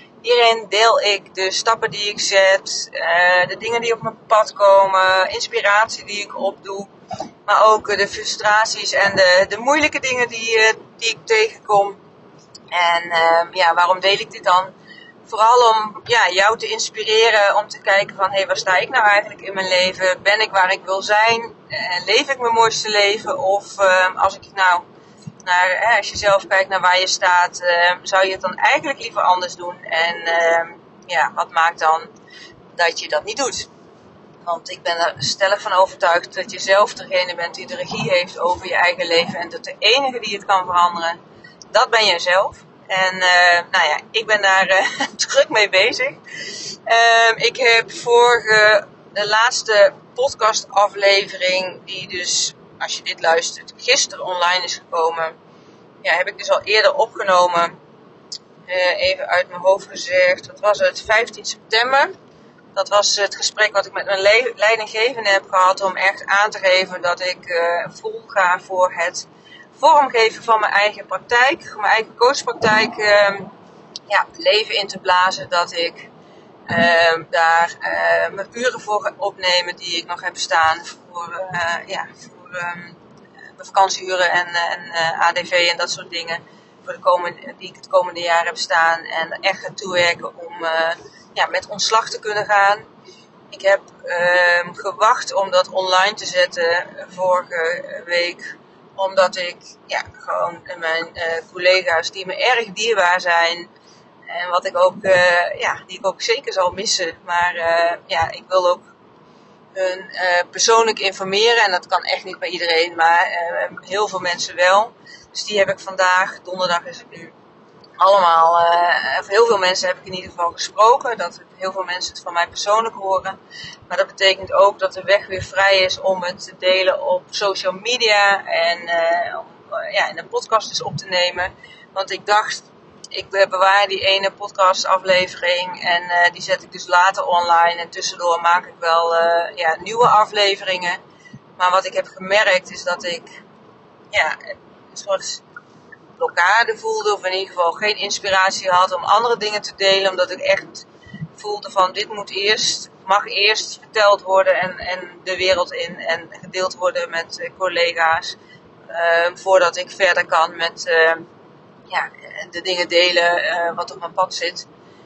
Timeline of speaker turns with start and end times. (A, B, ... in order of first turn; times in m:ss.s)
0:00.2-0:06.9 A
0:07.4-0:12.0 A
0:12.7-0:14.7 A
0:15.2-0:24.8 A
0:25.4-0:32.1 A
0:32.8-0:33.7 A
0:34.4-0:41.2 A
0:41.7-0:46.2 A
0:46.7-0:55.3 A
0:56.0-0:57.8 A
0:58.7-1:02.1 A
1:02.7-1:13.5 A
1:14.1-1:16.1 A
1:16.7-1:23.0 A
1:23.6-1:32.8 A
1:33.5-1:43.7 A
1:44.3-1:48.9 A
1:49.7-1:57.3 A
1:58.0-2:03.4 A
2:03.9-2:21.0 A
2:21.6-2:23.4 A
2:24.1-2:25.4 A
2:26.2-2:30.9 A
2:31.4-2:38.3 A
2:38.9-2:41.3 A
2:41.9-2:44.7 A